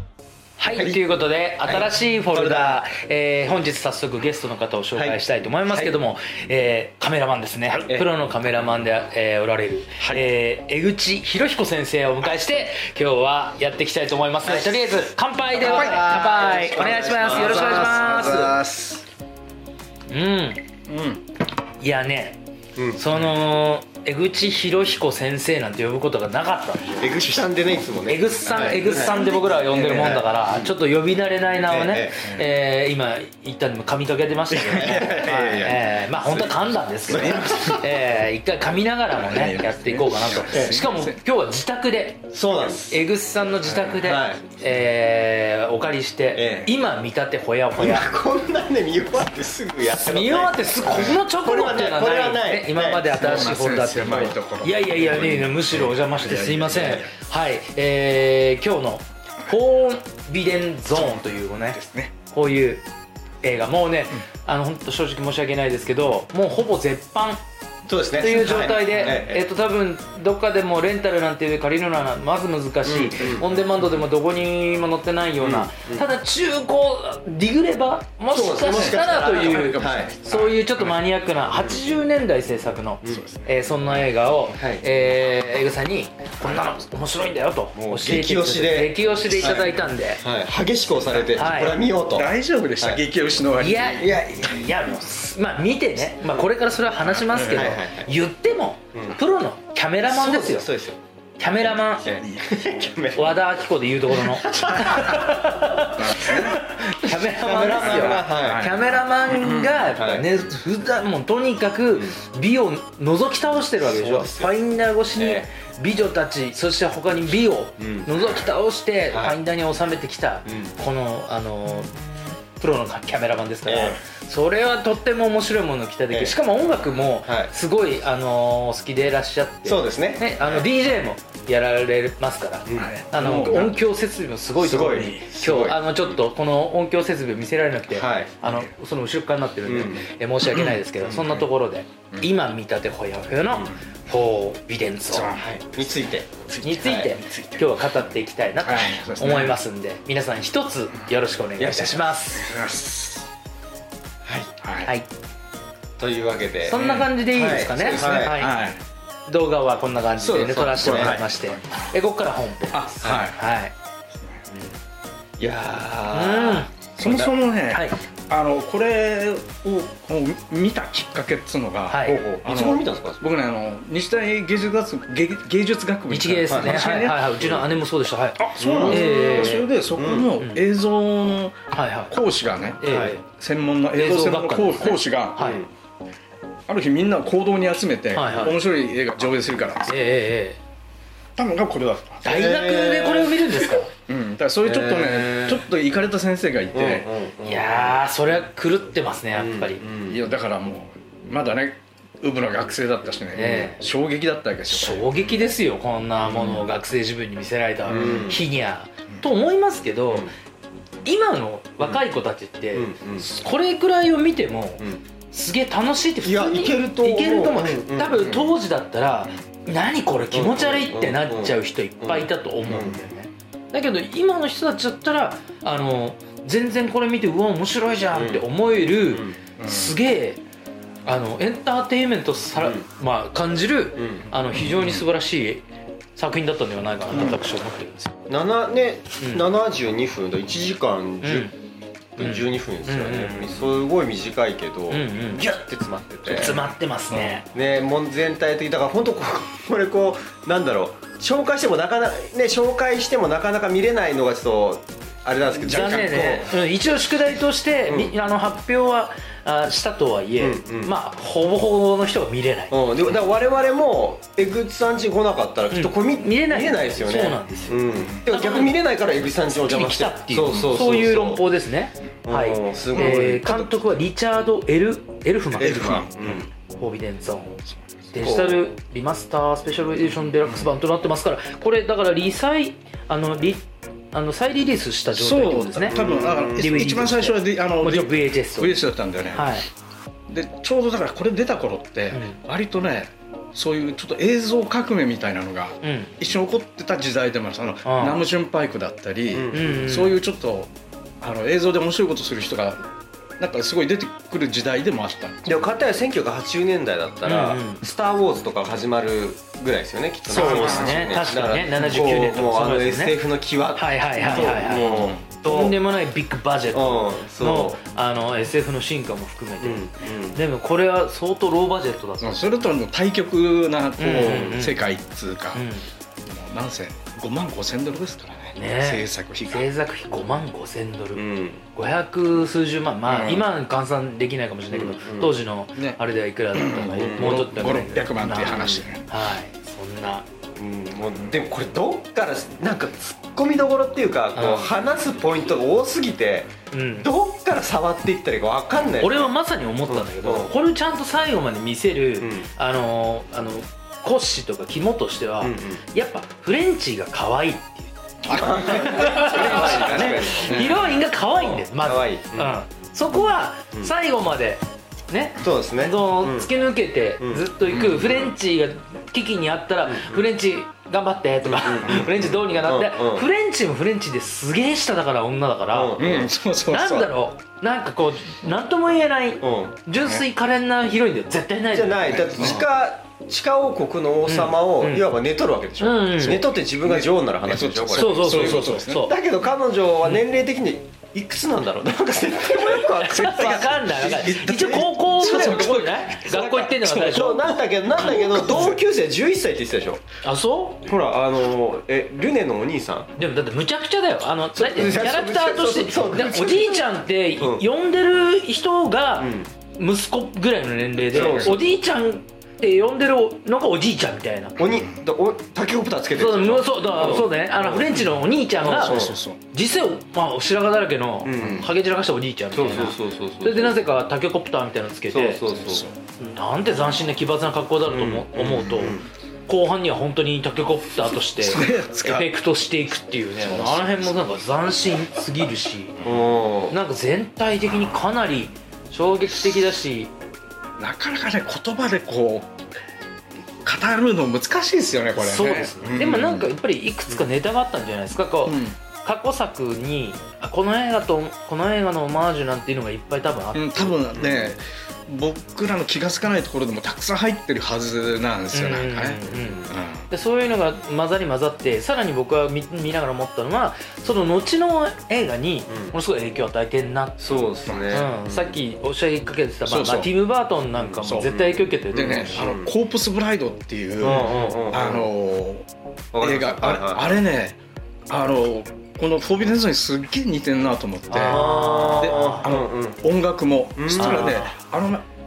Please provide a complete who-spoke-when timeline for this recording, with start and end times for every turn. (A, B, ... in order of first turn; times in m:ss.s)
0:00.6-0:18.6 A
0:00.7-0:01.0 B
0:01.6-0:02.9 B
0:04.9-0:05.9 B
0:07.7-0:08.1 B
0:15.6-0:18.7 B
0:15.6-0:16.3 C
0:17.2-0:19.0 C
0:20.1-0:20.6 A
0:20.9-0:21.2 C
0:21.8-0:22.4 A
0:23.0-0:27.2 A
0:27.0-0:30.7 B
0:28.1-0:48.1 A
0:28.4-0:29.2 C
0:31.7-0:32.3 B
0:34.5-0:35.2 C
0:34.7-0:37.8 B
0:37.1-0:37.7 C
0:39.1-0:41.2 C
0:42.3-0:43.0 B
0:43.6-0:44.0 C
0:44.0-0:44.4 B
0:46.3-0:46.7 B
0:47.8-0:53.1 B
0:49.9-1:02.8 A
0:50.9-0:51.2 C
0:53.1-0:57.1 C
1:00.9-1:02.1 C
1:03.4-1:07.4 A
1:07.9-1:09.4 B
1:08.2-1:30.2 A
1:08.5-1:09.1 C
1:12.8-1:13.5 B
1:15.4-1:16.1 B
1:18.3-1:20.1 B
1:18.7-1:20.9 C
1:23.1-1:23.4 C
1:24.6-1:24.8 B
1:27.8-1:33.0 B
1:29.3-1:29.6 C
1:31.3-1:31.8 A
1:32.1-1:34.2 C
1:33.6-1:40.7 A
1:34.0-1:34.5 B
1:37.1-1:37.8 C
1:37.4-1:38.1 B
1:40.1-1:41.0 B
1:41.4-1:42.1 A
1:41.6-1:43.4 B
1:42.2-1:42.4 C
1:43.1-2:01.9 A
1:44.2-1:45.2 B
1:46.0-1:46.6 C
1:47.4-1:48.8 B
1:48.0-1:48.8 C
1:49.3-1:49.8 C
1:49.9-1:50.2 B
1:53.8-1:54.5 B
1:55.2-1:55.5 B
1:57.8-1:58.4 B
1:59.1-1:59.4 B
2:00.4-2:00.7 B
2:02.6-2:25.4 A
2:03.6-2:04.0 B
2:06.1-2:06.4 B
2:07.2-2:07.5 B
2:09.6-2:10.7 B
2:12.7-2:13.7 B
2:12.7-2:13.7 C
2:14.6-2:16.2 B
2:14.8-2:15.2 C
2:17.9-2:18.3 B
2:19.6-2:20.0 B
2:20.4-2:20.8 C
2:21.0-2:21.4 B
2:25.1-2:25.5 C
2:25.4-2:27.1 B
2:26.5-2:27.7 C
2:26.6-2:32.5 A
2:28.6-2:29.6 C
2:31.6-2:32.1 B
2:32.4-2:33.3 C
2:34.2-2:34.5 B
2:34.6-2:34.9 C
2:36.0-2:38.4 B
2:36.6-2:38.5 A
2:36.7-2:38.8 C
2:39.3-2:43.7 A
2:40.2-2:41.8 C
2:40.7-2:41.2 B
2:42.7-2:43.4 C
2:44.1-2:44.4 C
2:45.4-2:46.7 B
2:46.1-2:48.0 A
2:47.0-2:57.5 C
2:51.9-2:52.2 A
2:52.0-2:53.3 B
2:56.1-2:59.6 A
2:56.5-2:56.8 B
2:58.4-3:01.6 C
2:58.6-3:00.3 B
3:01.7-3:02.1 A
3:02.1-3:05.5 C
3:02.8-3:03.2 A
3:02.8-3:03.2 B
3:03.9-3:05.6 A
3:05.4-3:05.7 B
3:06.7-3:10.0 C
3:08.1-3:08.5 A
3:08.3-3:08.5 B
3:09.9-3:10.6 A
3:11.4-3:12.4 C
3:12.2-3:13.9 A
3:12.2-3:13.6 B
3:14.1-3:17.1 C
3:14.6-3:15.6 B
3:16.7-3:18.0 B
3:17.4-3:19.8 A
3:19.3-3:20.2 B
3:20.1-3:25.1 C
3:23.3-3:23.8 A
3:23.4-3:23.6 B
3:24.7-3:30.3 A
3:26.3-3:26.6 C
3:27.9-3:28.4 C
3:27.9-3:28.4 B
3:31.0-3:50.4 A
3:32.7-3:33.3 B
3:36.2-3:38.5 B
3:40.3-3:43.0 B
3:48.1-3:48.4 B
3:49.1-3:49.4 B
3:49.6-3:50.0 C
3:51.0-3:55.6 A
3:52.5-3:52.8 B
3:54.0-3:54.2 B
3:54.5-3:55.0 C
3:56.2-3:58.1 A
3:57.1-3:57.4 C
3:58.3-4:01.5 B
4:01.2-4:01.5 A
4:02.2-4:03.5 A
4:02.2-4:06.7 B
4:04.9-4:05.5 A
4:06.2-4:07.5 A
4:07.1-4:07.4 C
4:07.5-4:16.5 B
4:15.5-4:16.4 C
4:15.7-4:22.8 A
4:17.9-4:18.1 B
4:20.4-4:20.9 B
4:22.7-4:31.4 B
4:25.7-4:28.8 A
4:29.5-4:36.1 A
4:32.2-4:33.4 B
4:32.9-4:34.0 C
4:35.6-4:36.5 C
4:35.6-4:36.4 B
4:36.7-4:48.8 A
4:37.7-4:38.1 C
4:38.2-4:38.6 B
4:45.2-4:49.6 C
4:45.9-4:46.9 B
4:49.3-4:49.7 A
4:50.3-5:02.8 C
4:52.1-4:52.4 A
4:55.8-4:56.1 A
4:57.8-4:58.2 A
4:59.3-4:59.8 B
4:59.5-5:00.2 A
5:03.4-5:05.6 C
5:05.4-5:15.8 B
5:07.2-5:07.8 A
5:10.3-5:13.2 A
5:10.3-5:12.1 C
5:13.8-5:22.4 A
5:14.2-5:15.2 C
5:16.7-5:17.8 B
5:19.6-5:20.4 B
5:22.2-5:25.6 C
5:24.0-5:24.8 A
5:24.2-5:24.5 B
5:25.5-5:25.8 A
5:26.2-5:29.7 C
5:28.6-5:40.2 A
5:31.1-5:31.6 B
5:33.0-5:33.4 C
5:34.7-5:35.4 B
5:36.5-5:39.0 C
5:37.0-5:37.5 B
5:38.4-5:38.8 B
5:40.6-5:49.3 B
5:44.3-5:44.7 A
5:46.7-5:47.1 A
5:49.0-5:57.9 A
5:49.8-5:50.5 B
5:52.2-5:52.5 B
5:55.4-5:55.8 B
5:58.2-6:00.8 C
5:58.3-6:02.5 B
5:58.4-6:16.0 A
6:05.4-6:06.5 B
6:07.2-6:08.4 B
6:09.8-6:10.2 B
6:11.4-6:13.2 B
6:15.7-6:16.3 B
6:16.0-6:17.1 C
6:16.7-6:22.6 A
6:19.4-6:19.8 B
6:21.7-6:35.8 B
6:22.1-6:22.6 C
6:24.3-6:25.0 A
6:25.8-6:26.5 A
6:26.8-6:29.1 C
6:27.9-6:29.2 A
6:32.6-6:38.5 A
6:33.1-6:37.2 C
6:36.3-6:40.0 B
6:38.2-6:38.7 C
6:40.2-6:40.8 A
6:40.8-6:43.1 B
6:43.2-6:54.6 A
6:44.5-6:47.6 B
6:49.2-6:49.5 B
6:51.1-6:51.6 B
6:51.2-6:51.6 C
6:54.6-6:58.0 B
6:56.1-7:05.4 A
6:58.6-6:59.4 C
6:58.6-6:59.2 B
7:01.2-7:01.7 B
7:02.5-7:03.8 B
7:05.1-7:05.9 B
7:05.5-7:05.9 C
7:06.2-7:16.0 A
7:07.9-7:09.1 B
7:11.4-7:12.3 C
7:13.4-7:14.2 C
7:16.0-7:16.7 B
7:16.7-7:20.1 A
7:20.8-7:22.5 C
7:23.6-7:26.5 C
7:25.1-7:34.0 A
7:28.4-7:28.8 C
7:33.5-7:40.1 C
7:34.1-7:34.5 B
7:38.5-7:52.4 A
7:39.3-7:39.7 B
7:45.7-7:45.9 B
7:47.2-7:48.6 B
7:47.6-7:48.0 C
7:49.6-7:50.1 C
7:50.8-7:52.7 B
7:51.0-7:51.3 C
7:51.9-7:55.7 C
7:54.0-7:55.1 B
7:54.0-7:54.6 A
7:56.1-7:57.1 B
7:56.2-8:01.4 C
8:01.1-8:02.4 A
8:01.2-8:03.0 B
8:02.0-8:05.0 C
8:03.8-8:04.4 B
8:04.0-8:04.5 A